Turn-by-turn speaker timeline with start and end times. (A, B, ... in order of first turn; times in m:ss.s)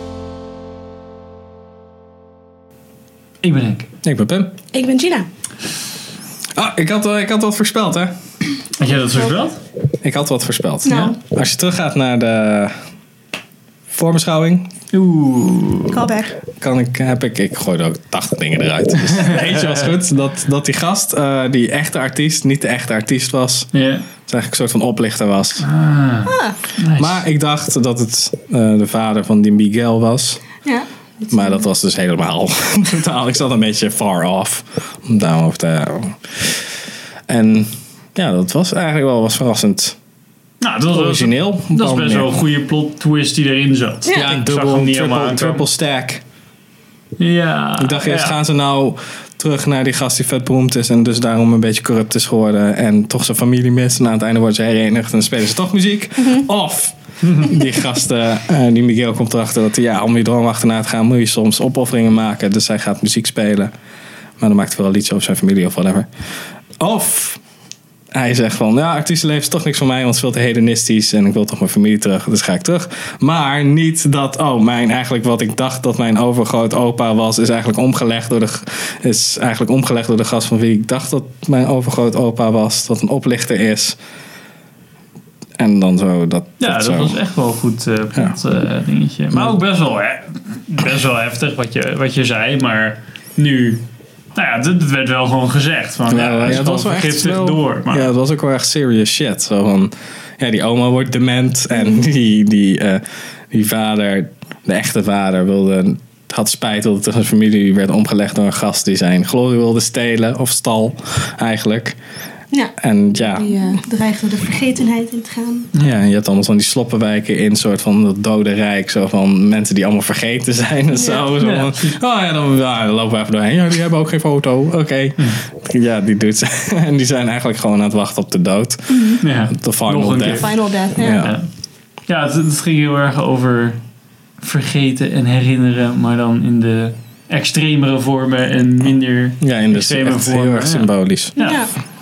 0:03.4-0:03.9 A
0:04.0-0:04.5 B
0:04.7-0:05.3 C
0:06.5-0:08.1 B
0:08.8-0:09.6 A
0:10.0-0:12.7 B
0:10.8-0:11.2 C
0:13.9-0:14.7 B
0:14.9-0:16.0 A
0:15.9-0:16.4 C
0:16.5-0:23.7 B
0:19.2-0:19.8 A
0:23.7-0:24.0 A
0:24.2-0:25.6 B
0:25.6-0:27.2 A
0:26.3-0:26.6 C
0:27.0-0:30.5 B
0:30.6-0:31.6 C
0:31.3-0:36.7 B
0:37.3-0:40.0 B
0:40.6-0:45.6 A
0:40.9-0:42.3 B
0:44.1-0:44.3 C
0:44.1-0:46.2 B
0:47.2-0:48.4 A
0:47.8-1:03.7 B
0:56.2-0:56.4 C
0:57.2-0:57.5 A
1:04.4-1:06.1 B
1:06.8-1:07.4 B
1:08.1-1:24.0 B
1:25.6-1:27.2 B
1:26.6-1:33.8 A
1:29.3-1:29.6 B
1:34.3-1:38.1 A
1:36.1-1:52.0 B
1:52.5-1:55.7 C
1:52.8-1:53.5 B
1:55.8-2:11.3 B
2:00.9-2:01.3 C
2:01.4-2:02.0 A
2:08.9-2:09.2 C
2:09.2-2:11.5 A
2:10.3-2:11.3 C
2:12.1-2:13.8 A
2:14.4-2:21.7 A
2:19.4-2:21.5 B
2:21.4-2:21.7 C